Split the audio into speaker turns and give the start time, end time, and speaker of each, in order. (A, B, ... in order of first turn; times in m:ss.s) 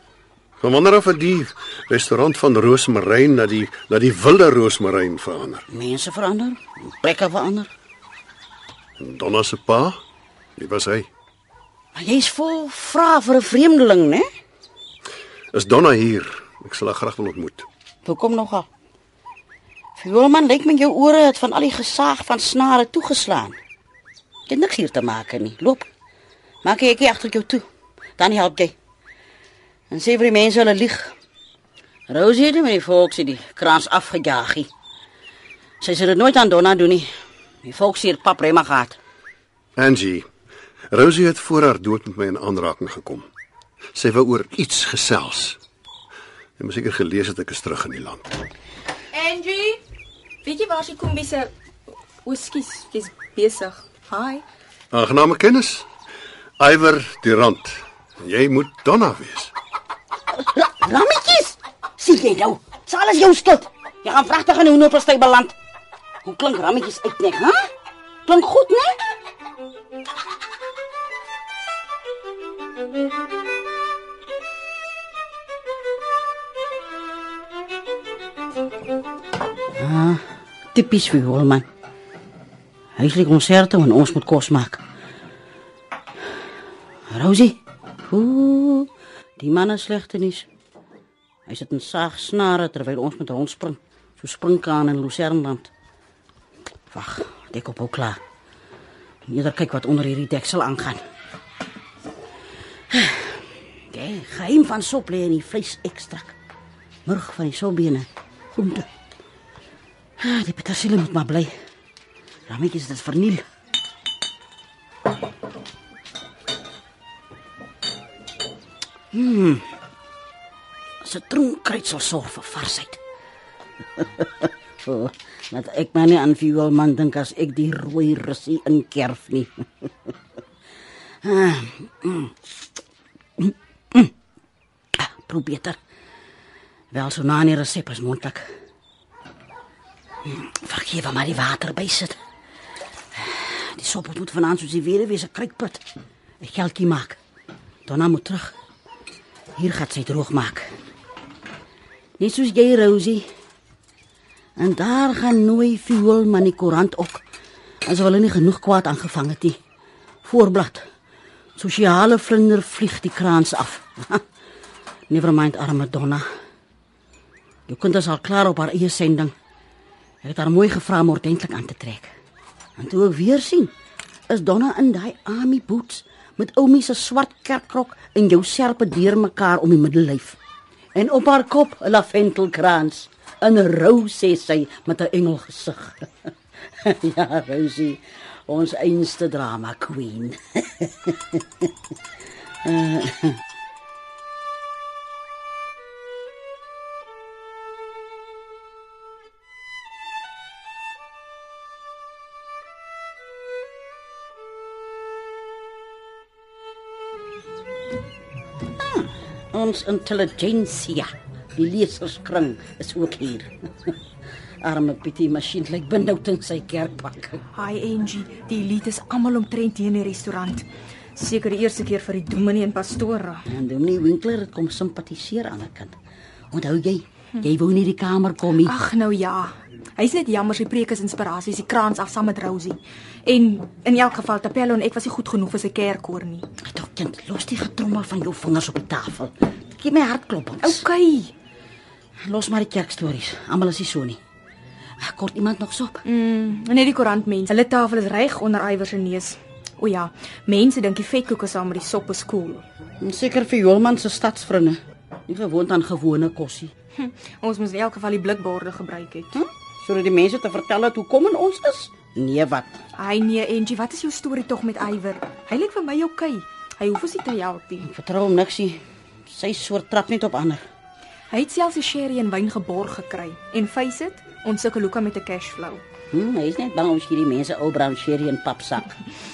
0:00.6-0:05.6 A
0:05.7-0:07.7 B
0:09.0-0:10.0 A
0:10.6-0:11.1 A
0:11.9-0:14.2 B
0:15.5-0:17.7 A
0:18.0-0:18.7 B
0:20.0-0:23.6 B
0:24.5-0:25.9 B
0:26.6-0:27.6 B
0:28.2-0:28.7 B
0:29.9-0:31.1 B
0:32.1-0:34.7 B
0:35.8-0:37.1 B
0:37.6-0:39.0 B
0:39.8-0:40.3 A
0:40.9-0:43.3 A
0:43.9-0:45.6 A
0:46.6-0:48.4 A
0:49.1-0:49.8 C
0:50.4-0:51.5 C
0:52.2-0:54.4 C
0:54.9-0:55.9 A
0:56.6-0:59.5 A
1:00.3-1:05.5 B
1:06.2-1:07.7 B
1:08.3-1:09.0 B
1:19.8-1:21.6 B
1:23.0-1:24.8 B
1:27.1-1:30.5 B
1:31.5-1:35.7 B
1:36.9-1:38.2 B
1:39.3-1:41.0 B
1:42.9-1:46.3 B
1:47.0-1:48.9 B
1:50.2-1:51.6 B
1:52.5-1:53.4 B
1:59.1-1:59.7 B
2:01.0-2:03.0 B
2:04.0-2:10.1 B
2:11.2-2:12.3 B
2:13.4-2:14.1 B
2:14.9-2:15.8 B
2:16.9-2:18.6 B
2:20.2-2:22.2 B
2:23.1-2:25.8 B
2:26.4-2:27.2 B
2:27.8-2:28.5 B
2:29.6-2:30.7 B
2:32.2-2:33.2 B
2:34.6-2:37.2 B
2:37.9-2:39.6 B
2:40.2-2:40.8 B
2:41.6-2:44.2 B
2:45.1-2:46.3 B
2:47.7-2:49.3 B
2:50.2-2:52.1 B
2:52.8-2:53.7 B
2:54.3-3:00.4 B
3:00.9-3:11.7 B
3:12.6-3:13.4 B
3:28.6-3:34.0 B
3:34.6-3:37.4 B
3:37.6-3:43.5 C
3:43.5-3:46.0 B
3:46.5-3:48.7 B
3:48.6-3:56.5 C
3:56.6-4:00.8 B
4:00.6-4:01.3 C
4:02.2-4:04.2 B
4:05.0-4:06.0 B
4:06.0-4:12.6 C
4:13.0-4:16.7 B
4:17.0-4:19.4 C
4:19.3-4:22.8 B
4:23.0-4:27.9 C
4:27.8-4:30.6 B
4:31.3-4:35.8 C
4:36.1-4:38.9 B